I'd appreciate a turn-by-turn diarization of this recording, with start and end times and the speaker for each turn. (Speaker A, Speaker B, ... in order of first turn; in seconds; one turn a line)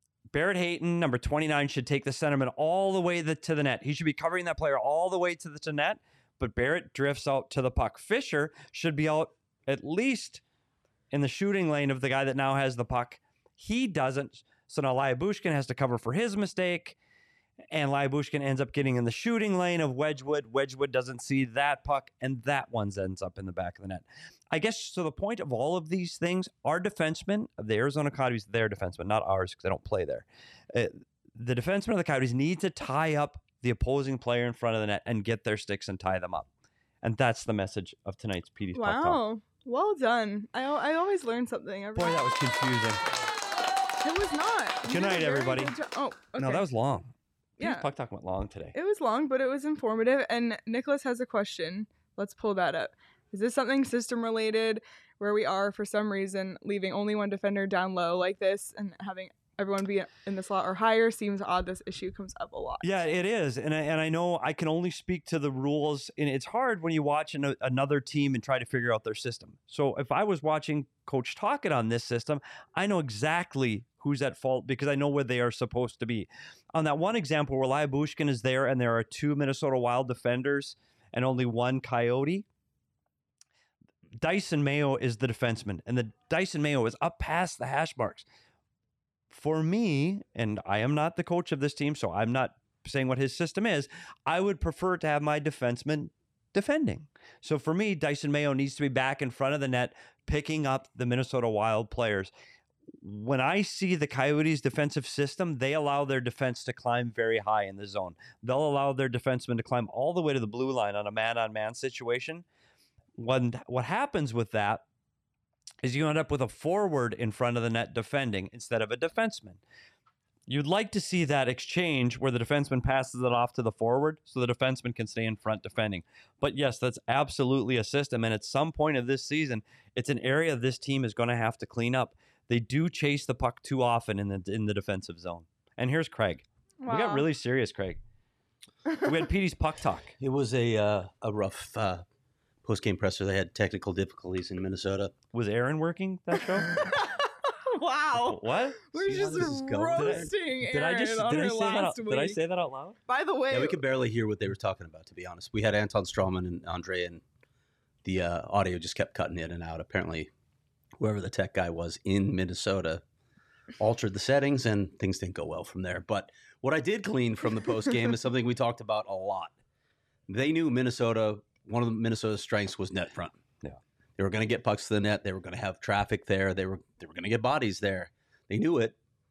Speaker A: 0.3-10.4
Speaker A: 11.1-17.0
Speaker A: 17.7-36.5
Speaker A: 37.0-39.2
Speaker B: 38.7-42.3
Speaker A: 42.0-43.0
Speaker B: 44.0-46.7
Speaker A: 44.9-45.8
Speaker A: 46.4-48.8
Speaker B: 47.6-47.9
Speaker B: 48.7-63.0
Speaker A: 62.8-82.5
Speaker A: 84.2-88.2
Speaker A: 89.3-102.3
Speaker A: 103.0-112.5
Speaker A: 113.2-114.8
Speaker A: 115.8-119.6
Speaker A: 120.5-138.0
Speaker B: 136.8-137.3
Speaker A: 139.0-140.1
Speaker C: 140.2-142.1
Speaker C: 142.6-145.2
Speaker A: 145.3-146.9
Speaker B: 146.6-152.4
Speaker A: 148.1-153.0
Speaker C: 149.0-150.3
Speaker B: 153.1-153.8
Speaker C: 153.5-157.2
Speaker C: 158.0-160.3
Speaker C: 161.0-163.0
Speaker C: 163.8-169.5
Speaker C: 170.3-173.4
Speaker C: 174.2-179.0